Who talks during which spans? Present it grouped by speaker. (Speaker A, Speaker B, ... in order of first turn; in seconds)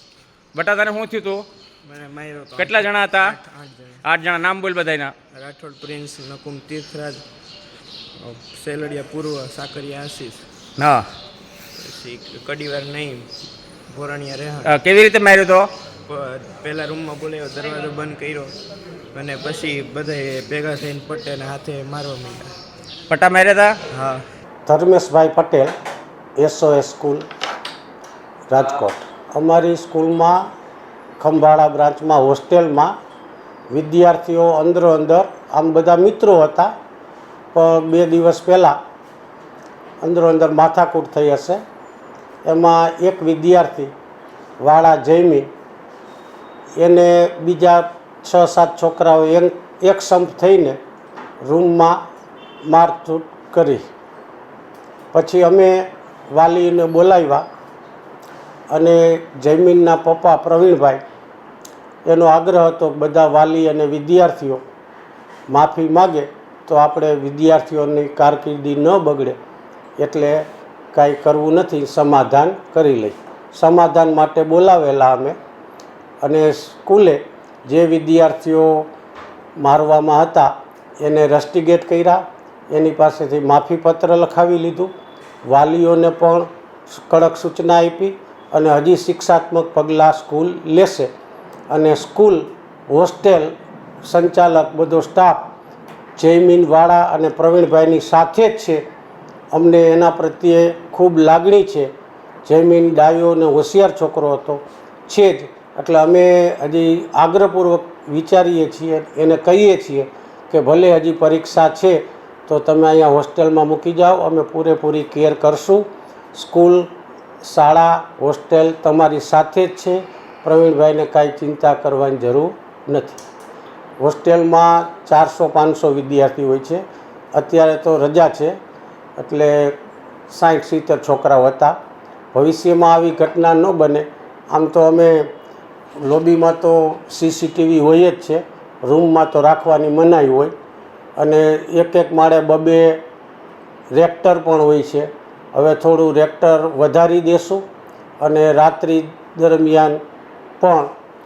Speaker A: 0.5-1.4, 2.6-3.4, 4.0-5.1, 10.8-11.1, 14.6-15.7, 23.1-23.8
Speaker B: 1.8-4.0, 5.3-7.2, 8.2-10.4, 11.8-13.3, 13.9-14.7, 16.1-18.6, 19.1-22.5, 23.9-24.2
Speaker C: 24.6-25.7, 26.4-27.2, 28.5-30.5, 31.2-32.9, 33.7-36.7, 37.5-38.8, 40.0-41.6, 42.4-43.9, 44.6-45.5, 46.8-50.8, 51.4-52.0, 52.6-53.8, 55.1-57.5, 58.7-61.0, 62.0-64.6, 65.5-69.4, 70.0-75.4, 76.2-78.9, 79.6-84.9, 85.4-91.1, 91.7-93.5, 94.0-95.5, 96.2-98.8, 99.5-101.9, 102.4-116.9, 117.4-123.2, 124.0-126.8, 127.3-128.6, 129.2-129.8, 130.3-131.8, 132.3-135.3, 136.0-140.5, 141.2-143.0, 143.9-147.6, 148.2-150.0, 150.6-150.9